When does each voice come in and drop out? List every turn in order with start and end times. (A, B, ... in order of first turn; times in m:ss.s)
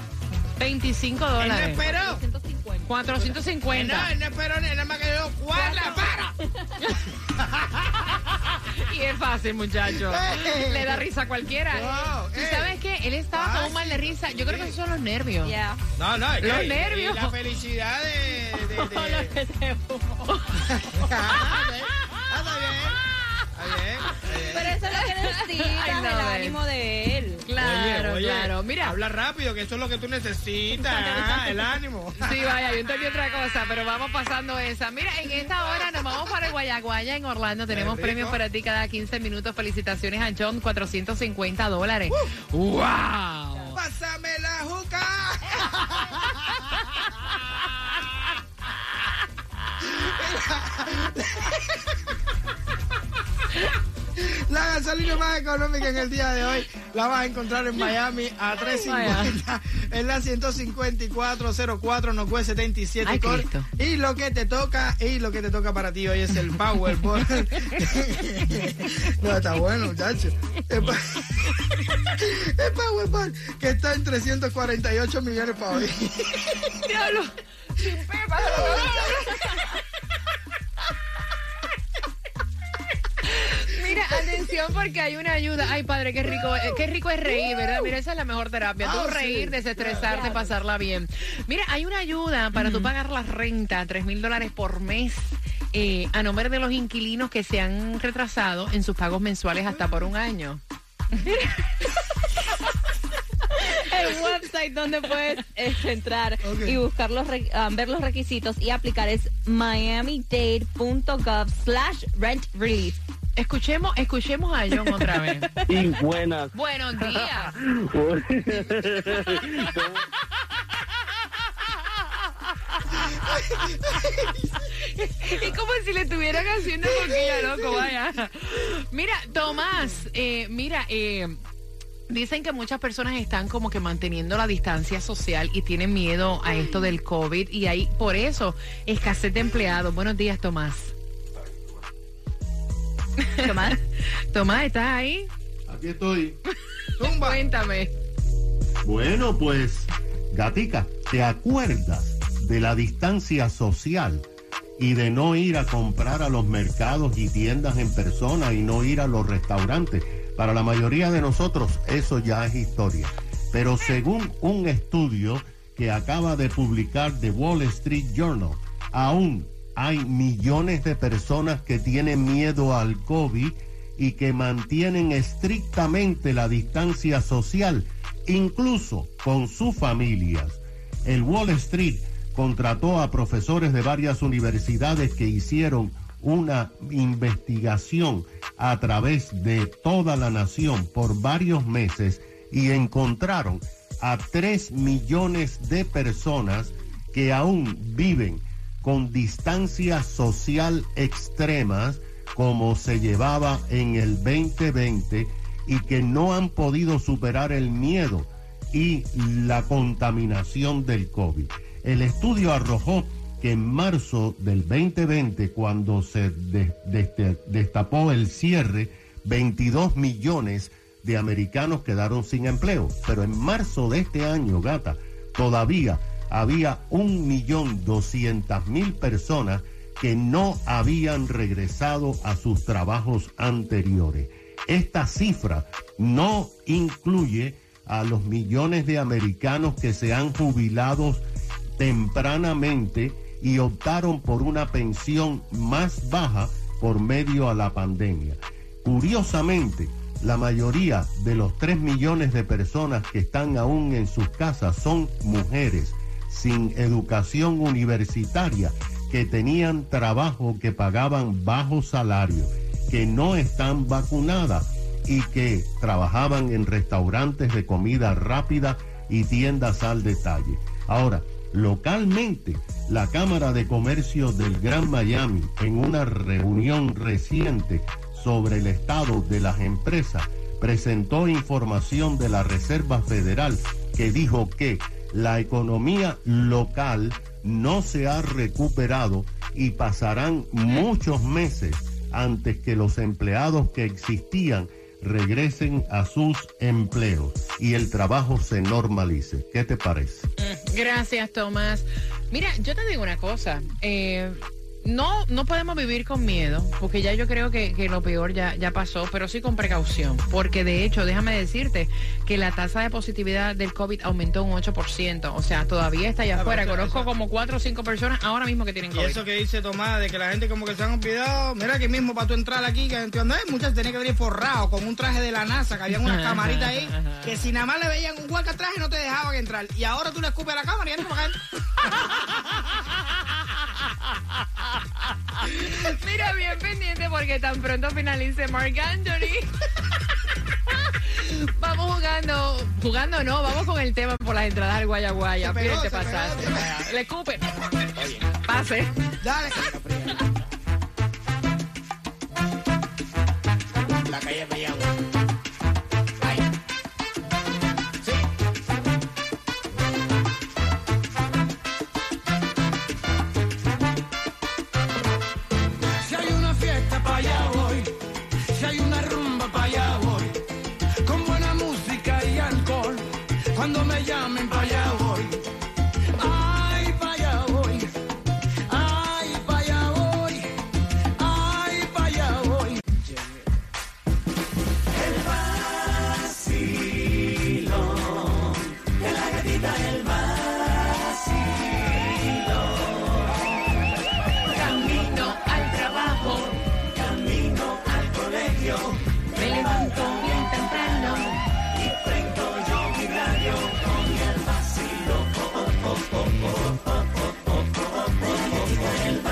0:00.6-0:01.8 A
0:01.4-0:02.2 B
0:01.8-0:03.0 C
0:02.8-0:04.1 A
0:03.2-0:06.3 B
0:05.5-0:06.0 C
0:08.7-0:15.5 A
0:09.8-0:11.0 B
0:11.7-0:12.8 B
0:13.3-0:14.8 B
0:15.4-0:15.8 C
0:16.0-0:19.4 B
0:16.4-0:17.3 A
0:18.6-0:20.3 C
0:20.8-0:23.0 B
0:23.5-0:24.8 B
0:24.2-0:27.5 C
0:24.8-0:26.6 A
0:27.4-0:29.0 A
0:27.6-0:32.6 B
0:32.2-0:43.7 A
0:37.7-0:38.4 B
0:43.7-0:46.3 B
0:49.8-0:51.8 B
0:54.2-1:11.4 B
0:58.8-0:59.3 A
1:03.0-1:03.7 A
1:12.2-1:16.8 B
1:16.8-1:19.6 A
1:18.4-1:19.3 B
1:23.2-1:40.6 A
1:28.8-1:30.3 B
1:30.1-1:30.4 C
1:43.9-1:53.0 C
1:46.4-1:46.8 B
1:53.4-1:55.5 A
1:55.7-1:56.5 D
1:56.5-1:57.5 A
1:57.9-2:00.0 D
2:02.8-2:03.3 A
2:04.8-2:11.4 A
2:07.0-2:07.7 B
2:12.1-2:20.9 A
2:23.2-2:23.8 A
2:23.4-2:23.8 C
2:24.3-2:25.3 A
2:25.7-2:26.4 E
2:27.0-2:27.9 A
2:27.0-2:27.4 B
2:28.8-2:34.3 E
2:34.8-4:01.2 E
4:01.8-5:00.3 E
5:00.4-5:19.2 A
5:16.3-5:17.1 B
5:18.9-5:31.4 B
5:26.0-5:27.2 A
5:35.4-5:39.5 A
5:40.7-5:47.4 A
5:45.4-5:46.8 B
5:48.0-5:48.2 B
5:48.4-5:48.9 A
5:49.2-5:50.2 B
5:54.1-5:54.8 B
6:06.0-6:07.9 F
6:08.5-6:10.4 F
6:11.0-6:15.4 F
6:16.2-6:17.9 F
6:18.7-6:20.5 F
6:21.2-6:22.8 F
6:34.5-6:36.6 A
6:39.3-6:41.4 A